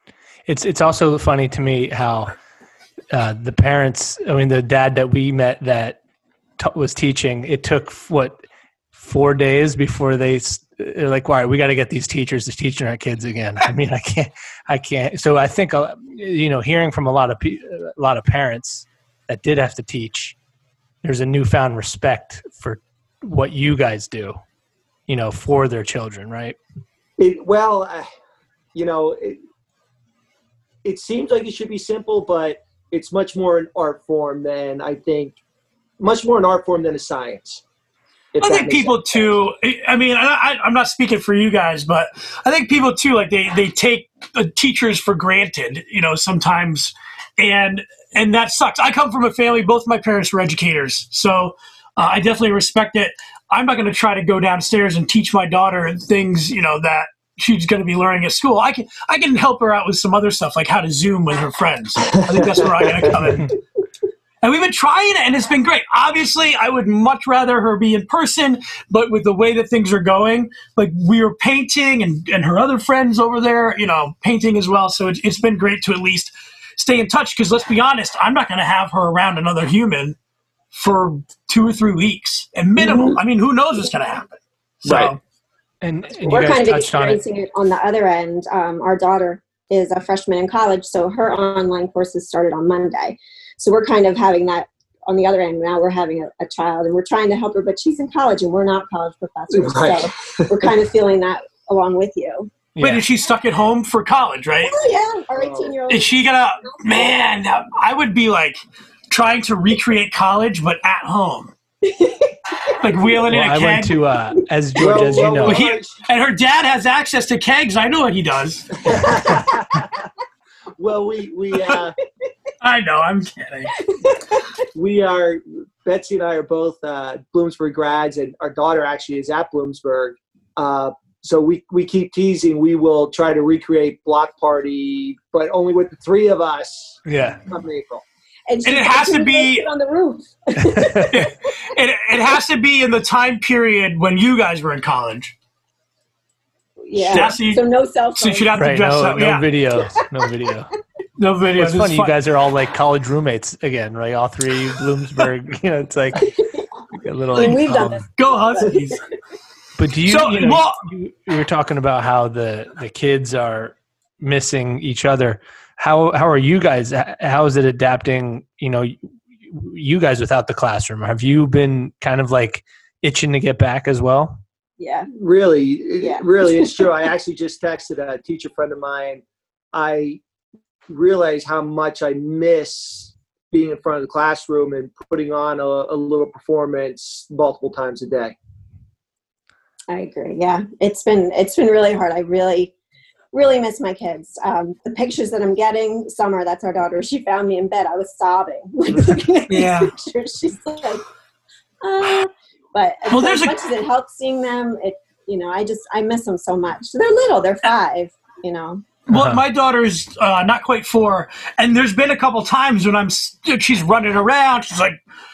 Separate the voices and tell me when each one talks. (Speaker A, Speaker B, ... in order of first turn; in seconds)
Speaker A: 0.5-2.3, 3.1-6.0, 6.6-8.4, 8.9-20.4, 21.0-24.4, 25.1-26.6, 85.8-87.2, 102.8-103.0, 113.3-115.7, 137.1-137.4, 140.8-141.2, 148.6-150.7, 151.6-156.3, 157.0-158.1, 159.8-174.4, 209.1-209.4
Speaker B: 27.2-28.1, 28.8-29.4, 30.8-35.4, 36.0-37.6, 38.3-39.4, 62.4-62.9, 82.8-83.2, 99.5-100.7, 105.4-105.8, 114.8-116.0, 118.8-119.9, 120.8-122.0, 124.7-138.0, 175.2-180.2, 180.9-188.3
Speaker C: 38.4-63.5, 64.4-80.2, 80.7-85.2, 102.8-104.7, 105.9-111.5, 112.8-114.0, 114.8-119.4, 122.6-123.8, 138.6-139.7, 141.1-145.3, 147.0-149.6, 151.2-152.2, 157.3-159.0, 160.0-160.8, 199.5-199.9, 203.1-203.6, 209.1-215.0
Speaker D: 86.2-102.5, 104.6-107.1, 111.8-112.8, 138.5-141.3, 146.9-148.6, 157.3-159.0, 174.8-175.1, 176.0-176.9, 189.9-192.7, 193.3-201.0, 201.8-208.8